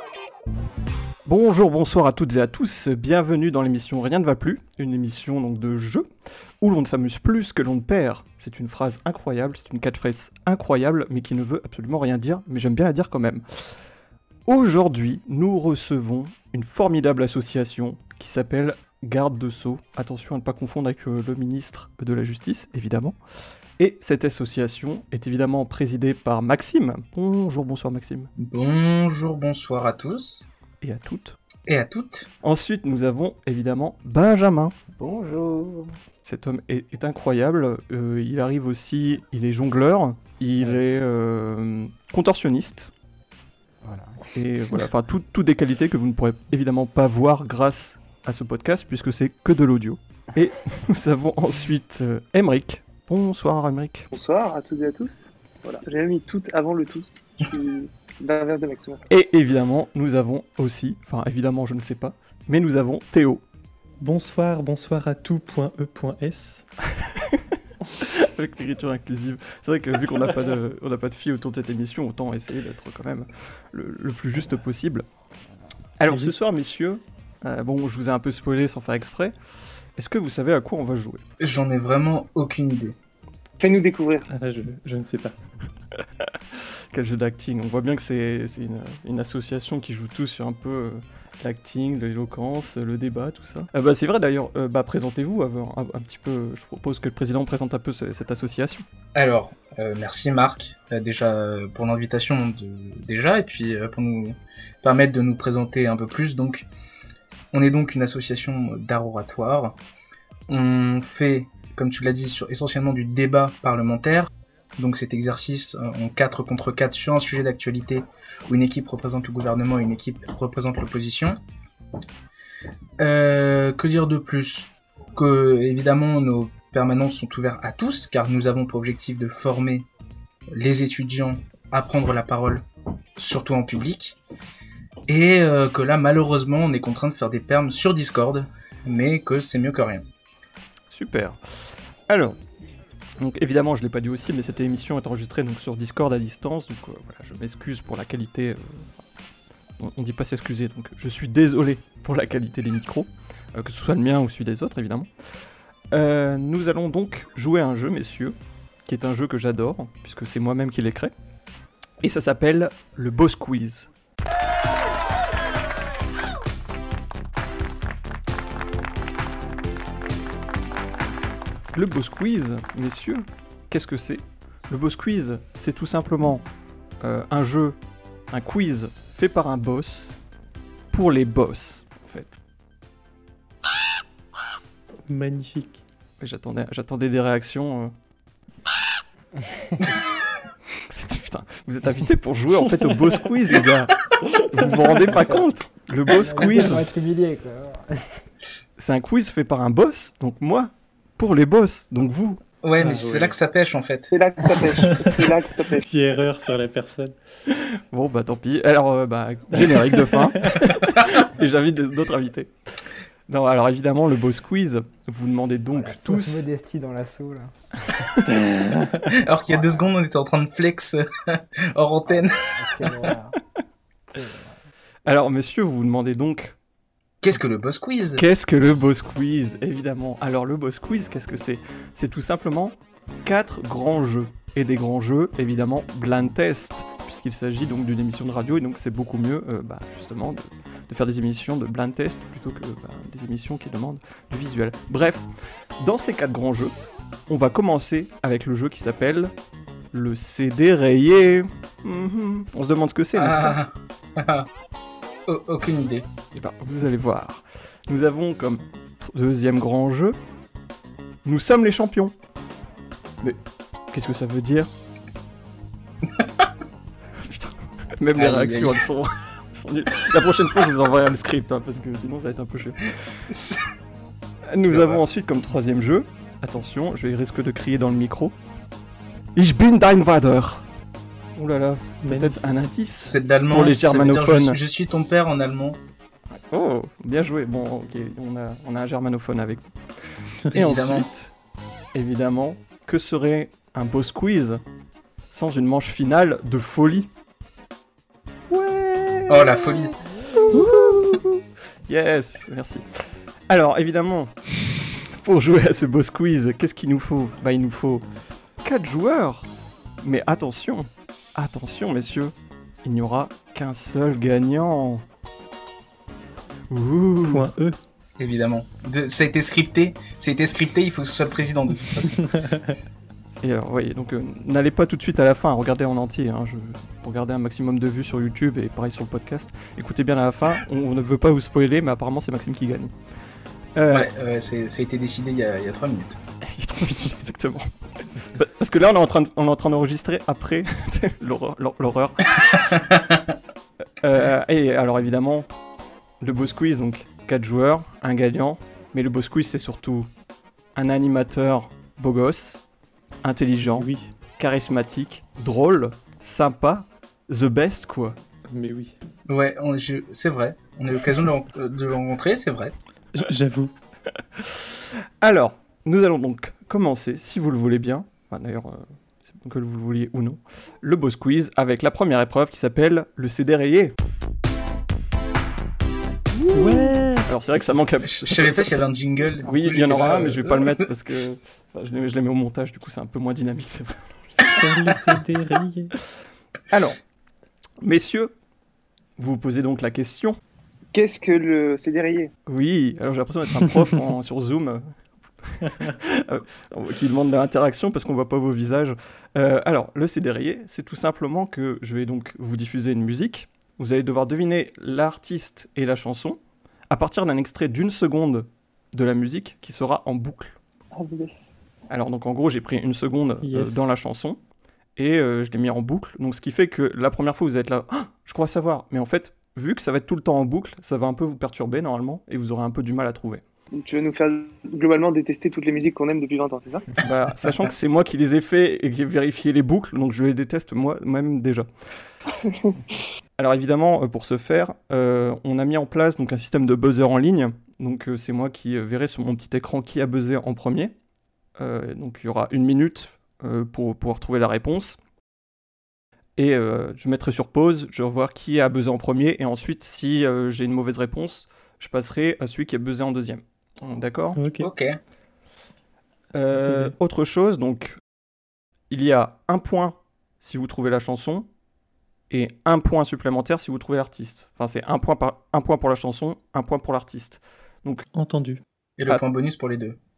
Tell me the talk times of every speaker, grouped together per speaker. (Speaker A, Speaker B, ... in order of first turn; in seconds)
Speaker A: 1.2-6.0, 6.6-13.4, 14.5-23.2, 23.8-28.3, 30.8-31.4, 32.4-34.7, 36.2-42.9, 44.3-54.1, 59.1-63.4, 67.9-75.0, 76.0-79.3, 80.0-81.2, 86.9-98.8, 140.9-141.4, 142.1-142.4, 143.2-148.9, 149.8-155.1, 155.9-161.1, 162.0-163.9, 171.7-176.4, 177.0-177.8, 178.3-180.1, 180.9-182.4, 186.2-187.9, 190.9-196.9, 198.8-202.4, 207.5-212.5, 213.3-216.4, 225.1-226.5, 228.2-245.2, 245.8-246.7, 247.3-249.3, 249.9-253.6, 256.3-260.1, 261.2-262.1, 263.9-264.7, 267.2-272.9, 274.5-278.3, 279.4-280.6, 281.4-284.6, 286.5-289.7, 290.5-291.3, 291.9-294.6, 295.3-297.1, 298.5-302.8, 303.5-308.0, 308.6-309.5, 310.0-315.0, 316.7-317.5, 323.4-332.9, 333.8-334.1, 336.5-337.7, 338.3-342.6, 344.0-345.5, 346.2-350.1, 350.8-352.6, 353.2-358.2, 365.2-373.9, 376.3-378.8, 379.4-384.4, 386.7-387.0, 387.8-388.3, 389.2-390.4, 392.4-394.8, 395.4-410.6, 411.9-414.4, 414.9-423.4, 427.0-431.7, 433.4-440.9, 441.6-445.0, 446.4-454.4, 456.3-457.9, 458.9-461.5, 462.3-468.1
Speaker B: 28.4-30.5, 31.7-32.3, 81.4-83.0, 99.1-106.7, 107.5-109.8, 110.5-121.4, 123.0-129.9, 130.5-132.6, 133.2-134.2, 135.1-140.0, 202.6-204.1, 219.1-223.1, 227.2-228.2, 253.1-254.5, 255.3-256.1, 268.1-268.8, 273.3-273.6, 274.7-275.0, 283.0-285.8, 290.5-291.1, 299.3-299.9, 318.2-322.3, 333.9-336.2, 342.5-343.2, 359.3-362.7, 378.0-380.9, 454.6-455.0, 469.0-470.0
Speaker C: 35.0-35.9, 43.8-44.2, 189.4-189.9, 195.0-195.5, 196.2-198.2, 215.7-218.1, 219.5-219.9, 222.1-223.4, 224.1-224.6
Speaker D: 54.1-59.0, 83.6-84.2, 204.1-205.8, 390.9-392.3, 410.9-411.5, 423.7-426.9
Speaker E: 64.0-66.6, 76.1-76.3, 84.3-85.3, 185.1-185.8, 202.8-203.3, 204.7-205.2, 205.8-207.1, 209.6-210.8, 218.3-219.1, 282.0-282.6, 317.2-317.8, 322.0-322.8, 353.6-354.1, 358.5-358.9, 363.1-363.7, 376.5-377.3, 384.5-385.9, 413.4-413.9, 454.3-454.7, 456.5-456.9, 468.1-468.6